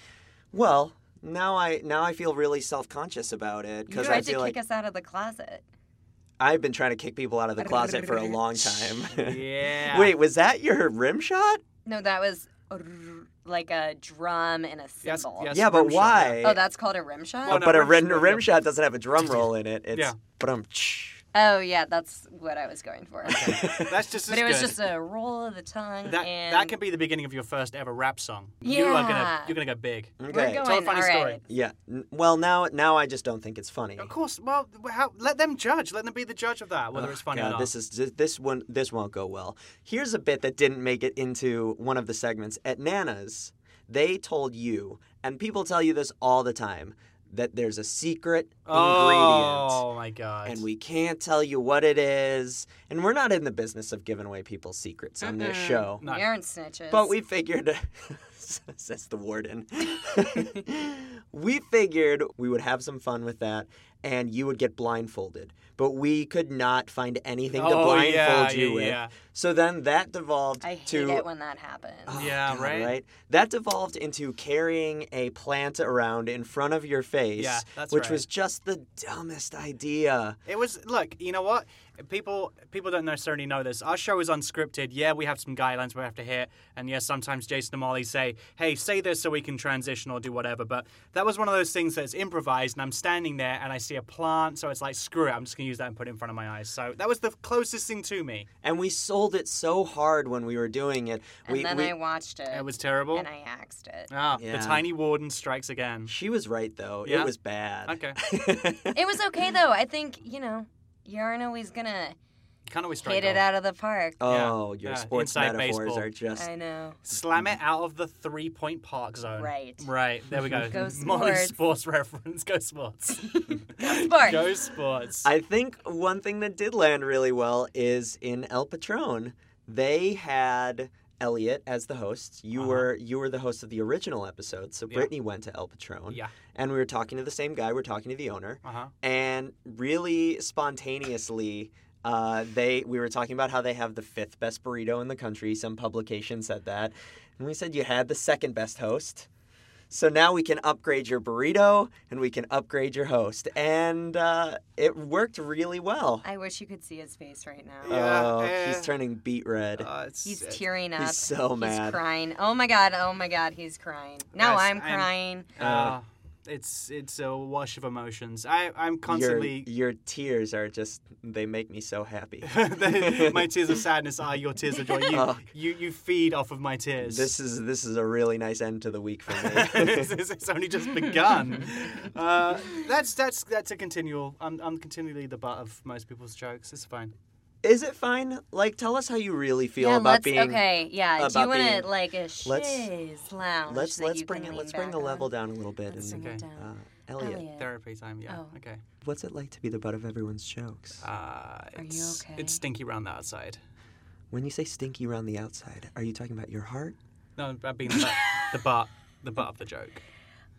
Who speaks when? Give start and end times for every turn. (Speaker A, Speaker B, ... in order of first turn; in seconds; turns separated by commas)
Speaker A: 0.5-4.6, Speaker B: 3.9-5.6, Speaker C: 3.9-4.3, Speaker A: 6.4-11.6, Speaker B: 7.6-8.9, Speaker C: 9.1-10.2, Speaker B: 11.8-15.5, Speaker C: 15.0-16.5, Speaker A: 15.5-16.6, Speaker B: 16.4-17.7, Speaker C: 17.4-18.5, Speaker A: 17.5-21.2, Speaker C: 19.2-20.2, Speaker B: 21.3-26.8, Speaker C: 23.3-24.8, Speaker A: 23.4-24.0, Speaker C: 26.1-31.4, Speaker B: 28.6-29.6, Speaker A: 30.2-30.6, Speaker B: 30.3-31.4, Speaker A: 31.5-34.1, Speaker C: 34.0-37.7, Speaker A: 37.0-49.8, Speaker C: 48.7-50.6, Speaker A: 50.5-56.0, Speaker B: 55.2-57.1, Speaker C: 56.0-56.3, Speaker A: 56.9-71.3, Speaker C: 67.5-69.1, Speaker B: 70.6-72.2, Speaker A: 72.1-80.4, Speaker C: 72.1-73.0, Speaker C: 77.4-78.2, Speaker C: 80.5-98.5, Speaker A: 98.6-102.0, Speaker B: 101.5-104.1, Speaker C: 102.5-103.3, Speaker C: 104.1-106.1, Speaker A: 104.4-104.8, Speaker A: 106.1-109.0, Speaker C: 107.0-107.3, Speaker C: 107.9-108.2, Speaker B: 108.9-112.2, Speaker C: 112.7-113.5, Speaker B: 113.0-114.2, Speaker A: 114.2-116.5, Speaker C: 114.3-116.1, Speaker B: 116.3-117.0, Speaker C: 117.0-125.3, Speaker B: 119.4-119.9, Speaker B: 120.5-121.6, Speaker B: 123.1-124.6, Speaker A: 125.2-149.3, Speaker C: 132.6-132.9, Speaker C: 138.6-138.9, Speaker A: 149.9-156.2, Speaker B: 156.2-158.0, Speaker C: 157.8-158.9, Speaker A: 157.9-159.9, Speaker C: 159.8-160.7, Speaker B: 160.2-165.5, Speaker A: 161.0-162.0, Speaker C: 164.4-169.7, Speaker A: 165.6-166.0, Speaker A: 169.1-173.5, Speaker C: 172.4-177.3, Speaker A: 175.1-175.5, Speaker A: 177.0-180.2, Speaker C: 179.3-187.1, Speaker A: 187.6-191.9, Speaker B: 189.8-195.3, Speaker A: 192.4-192.9, Speaker A: 193.7-197.5, Speaker B: 195.9-197.7, Speaker C: 196.1-196.4, Speaker C: 197.6-198.8, Speaker B: 198.3-198.6, Speaker A: 199.0-201.0, Speaker C: 201.0-203.6, Speaker B: 201.8-202.6, Speaker A: 204.3-207.0, Speaker C: 207.4-210.0, Speaker B: 207.9-208.5